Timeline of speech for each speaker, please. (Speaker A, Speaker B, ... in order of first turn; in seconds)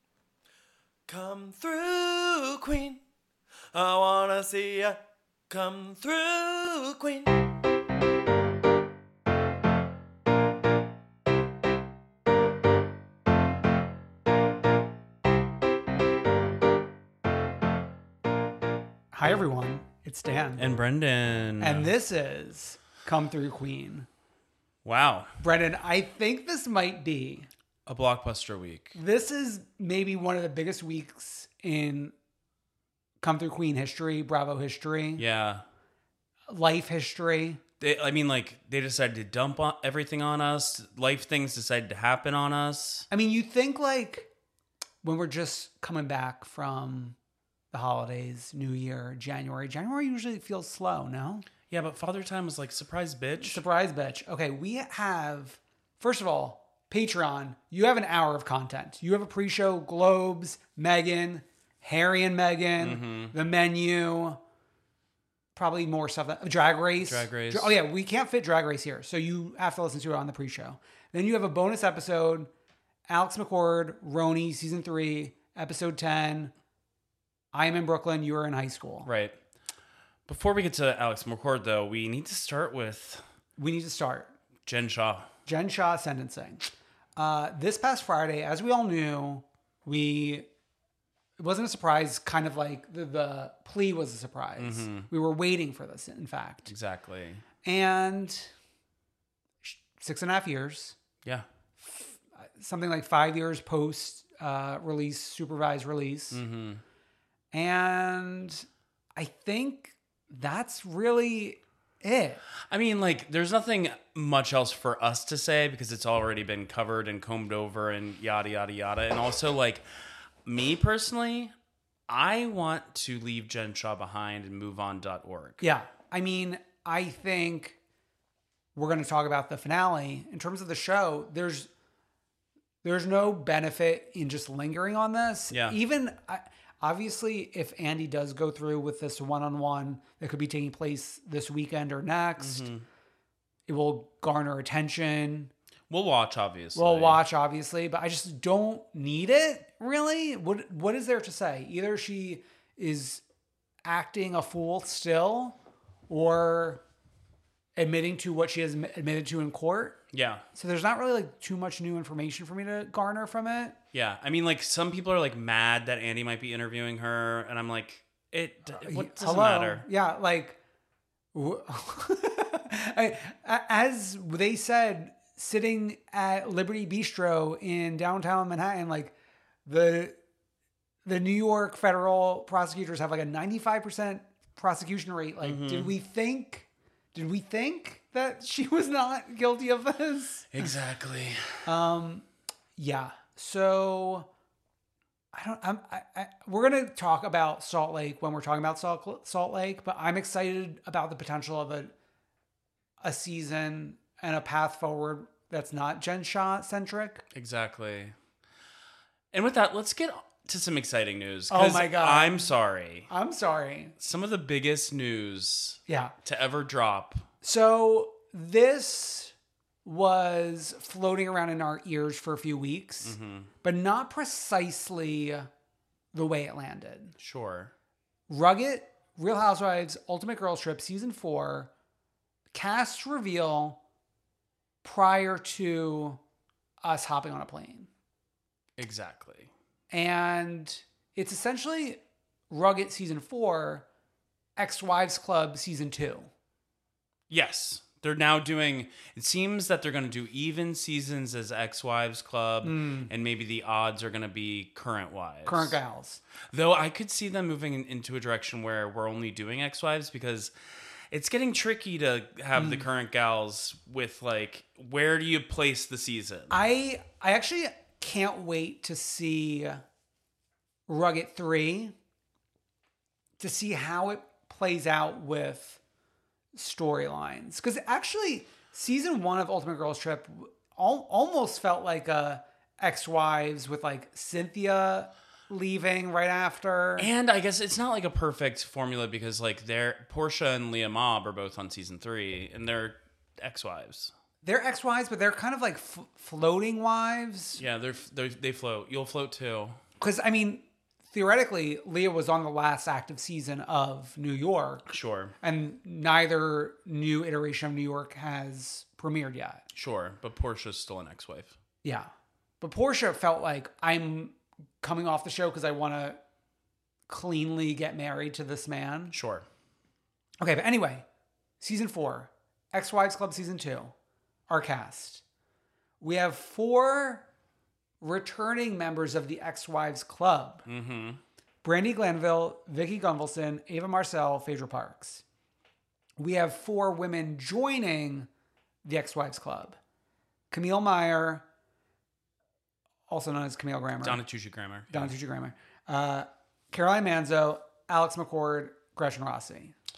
Speaker A: 1.1-3.0, 3.7-5.0, 5.5-7.4
Speaker B: 19.1-20.6, 21.6-24.1, 25.4-27.5, 28.9-32.1, 33.2-35.2, 36.5-37.6, 43.1-44.3, 45.0-47.2, 47.7-51.5, 53.4-64.4, 65.5-72.5, 73.1-76.5, 77.5-79.1, 83.6-84.3, 85.5-90.5, 91.4-96.7, 97.6-98.5, 99.6-101.0, 101.8-106.4, 107.5-112.4, 125.6-127.8, 128.8-131.7, 132.8-142.7, 143.7-145.5, 146.8-153.2, 153.8-155.6, 156.1-156.8, 157.8-160.0, 160.5-163.8, 168.8-170.6, 171.3-180.2, 181.1-190.8, 191.7-192.3, 192.8-194.3, 195.3-201.9, 203.0-207.2, 211.5-212.5, 213.1-214.0, 215.9-216.1, 217.4-219.3, 219.8-225.5, 226.1-227.2, 228.3-231.7, 232.5-233.8, 234.8-236.2, 236.8-237.9, 239.9-243.9, 244.6-246.3, 252.6-253.1, 255.5-256.2, 262.6-262.9, 266.5-269.8, 270.9-271.9, 273.4-275.8, 276.6-287.1, 294.4-297.6, 300.0-304.8, 305.4-309.6, 312.6-316.2, 317.1-319.1, 320.4-321.1, 321.6-323.9, 324.5-325.2, 326.0-327.2, 328.0-330.6, 331.6-335.2, 336.2-338.3, 338.8-339.8, 340.5-341.4, 343.1-344.2, 344.9-349.7
Speaker C: 20.6-21.9, 24.9-25.3, 27.9-29.0, 35.2-35.6, 37.8-43.1, 51.7-53.6, 62.8-63.3, 67.0-67.8, 79.0-79.4, 80.3-83.2, 84.7-85.3, 94.6-95.1, 96.7-97.4, 106.3-106.8, 112.7-119.8, 120.5-121.5, 122.1-125.6, 135.5-135.8, 142.4-142.8, 145.9-147.2, 160.1-160.4, 163.9-169.8, 185.4-185.9, 190.5-191.7, 207.3-208.1, 209.3-213.1, 214.0-217.3, 223.0-223.5, 227.2-227.7, 238.8-239.5, 247.3-255.8, 256.5-260.5, 261.1-266.6, 287.0-294.1, 297.6-299.8, 304.9-305.3, 309.7-311.6, 319.1-319.5, 330.7-331.2, 344.0-345.1